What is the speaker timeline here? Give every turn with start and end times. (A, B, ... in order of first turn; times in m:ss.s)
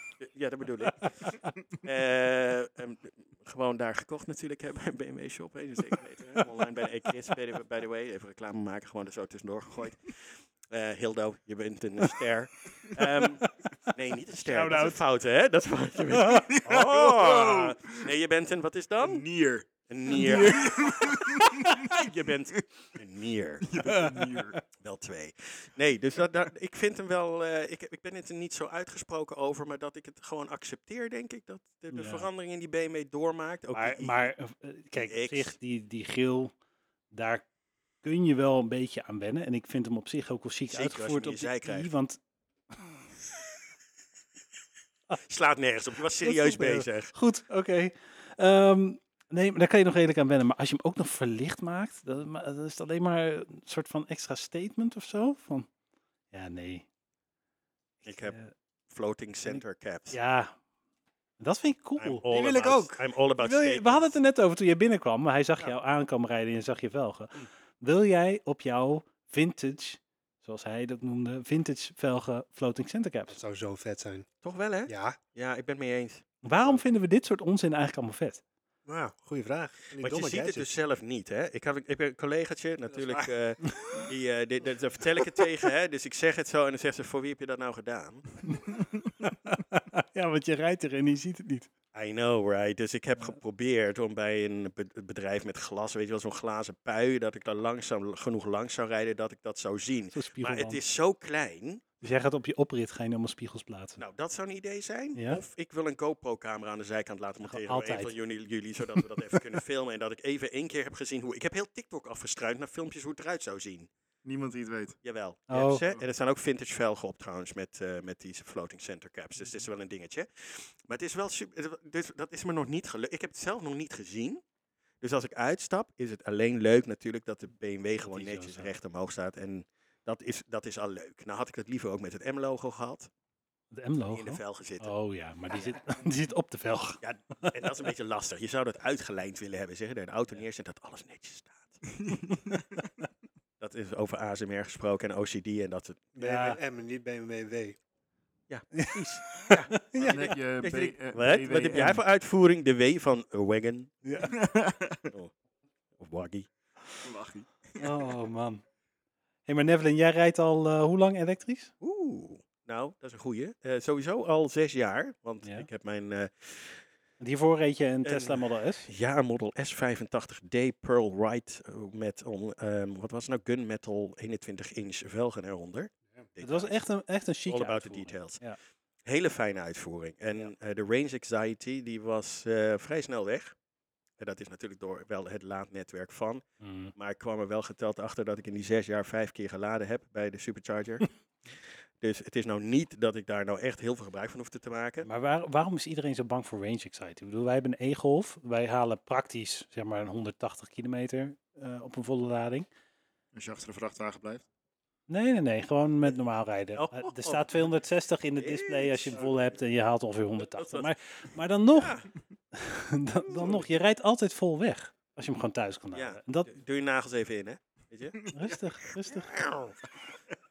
0:00.2-0:19.2 A
0:14.4-0:15.0 B
0:16.2-0:16.5 B
0:16.4-0:18.1 C
0:19.0-0:22.0 C
0:19.8-0:23.7 A
0:23.6-0:24.6 C
0:23.8-0:24.5 B
0:24.8-0:34.3 A
0:31.9-0:32.3 B
0:33.7-0:36.5 B
0:35.0-0:35.5 A
0:37.1-0:37.4 B
0:38.0-0:42.2 B
0:40.7-0:41.9 A
0:45.2-0:47.1 A
0:46.2-0:55.7 B
0:56.3-0:56.8 B
0:58.0-0:58.4 A
0:58.2-0:58.5 B
0:58.9-1:00.2 A
0:59.4-1:00.5 B
1:01.4-1:02.2 B
1:02.0-1:04.2 A
1:02.3-1:03.0 D
1:03.4-1:13.4 B
1:13.3-1:14.3 D
1:14.4-1:16.8 A
1:14.8-1:15.2 D
1:16.4-1:18.4 B
1:18.8-1:19.1 A
1:19.2-1:20.8 D
1:20.0-1:28.2 A
1:22.9-1:24.0 D
1:29.2-1:31.7 B
1:31.9-1:41.8 A
1:40.1-1:40.8 B
1:42.0-1:44.0 B
1:44.0-1:53.9 A
1:45.2-1:45.4 B
1:47.4-1:48.1 B
1:54.2-1:55.0 C
1:55.0-2:04.4 A
1:55.5-1:55.8 B
2:05.0-2:13.1 A
2:08.0-2:08.7 B
2:13.7-2:17.0 B
2:14.1-2:14.9 A
2:17.0-2:21.8 A
2:22.0-2:22.3 C
2:23.6-2:26.0 A
2:26.1-2:27.8 D
2:26.2-2:26.6 B
2:28.5-2:33.9 A
2:28.7-2:30.3 B
2:30.0-2:32.0 C
2:34.0-2:34.3 B
2:34.2-2:35.0 C
2:36.0-2:36.5 A
2:37.0-2:38.0 C
2:37.8-2:38.6 B
2:39.4-2:41.7 B
2:41.8-2:46.8 A
2:47.2-2:48.9 B
2:48.0-2:56.8 A
2:56.4-2:58.6 B
2:57.5-2:58.4 A
2:59.0-3:03.5 A
3:04.2-3:06.4 A
3:06.6-3:06.9 B
3:06.9-3:11.1 A
3:12.0-3:15.1 A
3:15.0-3:22.7 B
3:23.3-3:24.4 C
3:25.1-3:31.9 B
3:26.7-3:27.7 A
3:28.4-3:29.2 A
3:29.1-3:29.6 C
3:30.5-3:30.9 A
3:31.7-3:32.1 A
3:32.5-3:36.5 B
3:33.2-3:33.6 A
3:35.9-3:38.2 A
3:38.2-3:38.5 C
3:38.3-3:39.3 B
3:39.0-3:39.8 A